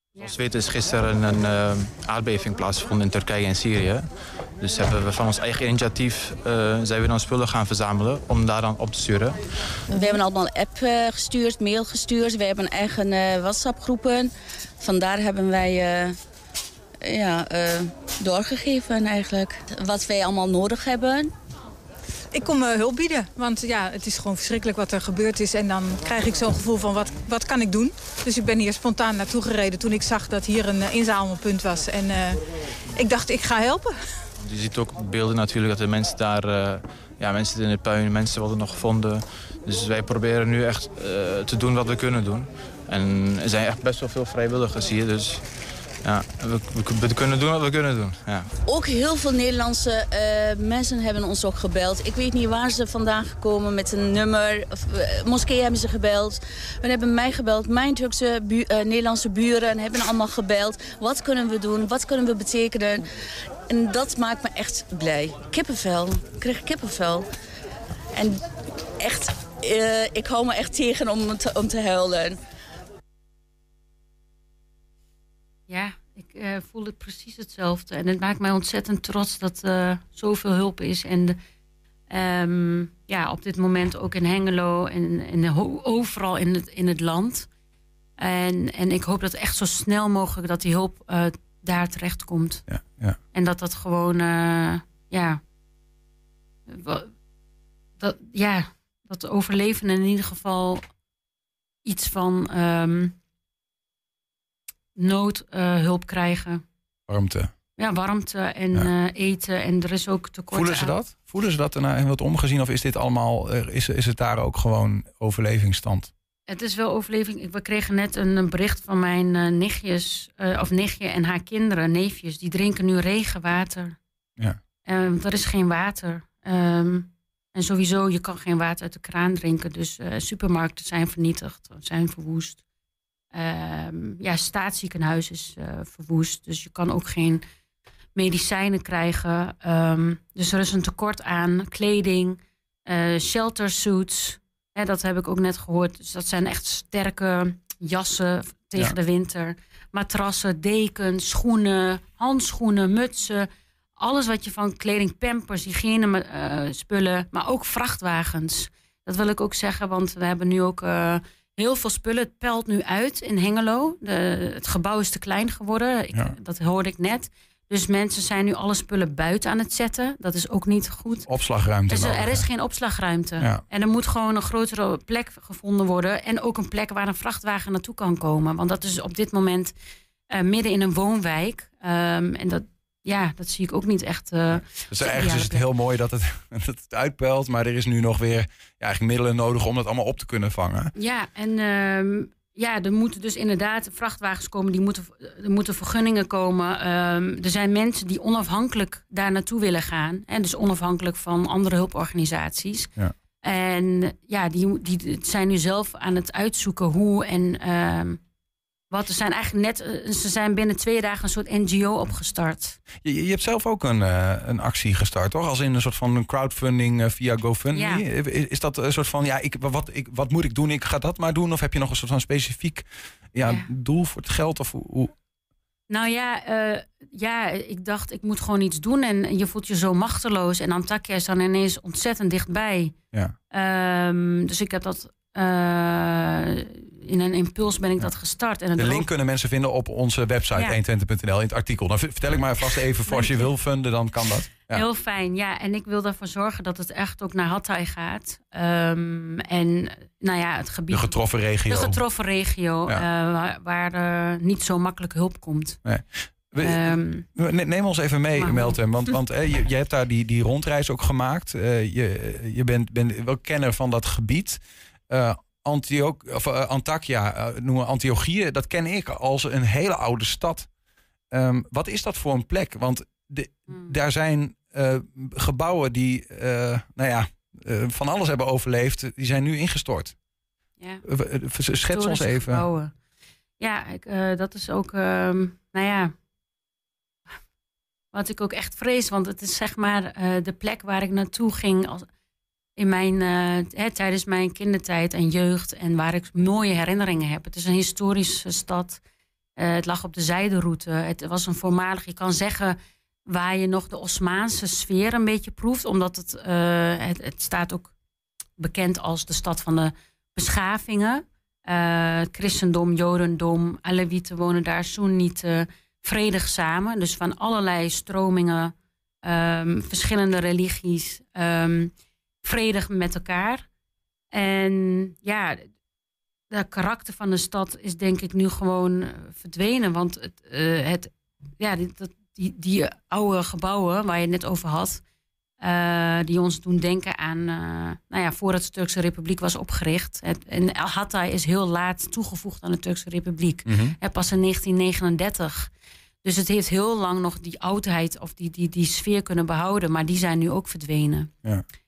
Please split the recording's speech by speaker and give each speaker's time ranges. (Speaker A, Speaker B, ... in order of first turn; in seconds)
Speaker A: 0.2-4.1, 4.6-9.4, 34.4-45.5, 46.0-48.5
Speaker B: 9.9-16.2, 17.0-21.3, 48.6-63.1, 63.7-67.3, 68.1-68.4, 69.0-72.4
Speaker C: 22.3-32.4, 33.0-33.9
Speaker D: 75.7-81.4, 82.1-87.5, 88.2-92.7, 93.3-95.4, 96.7-97.1, 98.0-100.8, 101.8-103.2, 105.0-106.6, 107.8-110.9, 116.5-124.0, 124.8-132.6, 133.3-137.4, 138.2-171.3, 171.9-179.8, 180.3-185.7, 191.0-202.9, 203.4-208.2, 208.9-212.8, 217.7-218.0, 225.9-232.9, 233.5-239.1, 243.1-243.5, 244.7-251.2, 251.7-255.8, 256.6-257.3, 258.4-259.1, 273.7-274.0, 281.9-282.9, 283.6-286.1, 288.1-292.1, 292.8-299.0, 299.6-302.8, 303.3-307.9, 308.6-321.9, 322.4-323.7, 324.3-325.7, 326.5-335.0, 335.6-345.7, 346.2-351.3
Speaker E: 92.7-93.2, 107.1-107.5, 110.5-116.1, 171.3-172.5, 184.9-190.9, 213.0-225.1, 238.8-244.8, 250.9-252.0, 255.8-270.7, 271.3-280.1, 281.1-282.6, 343.7-344.0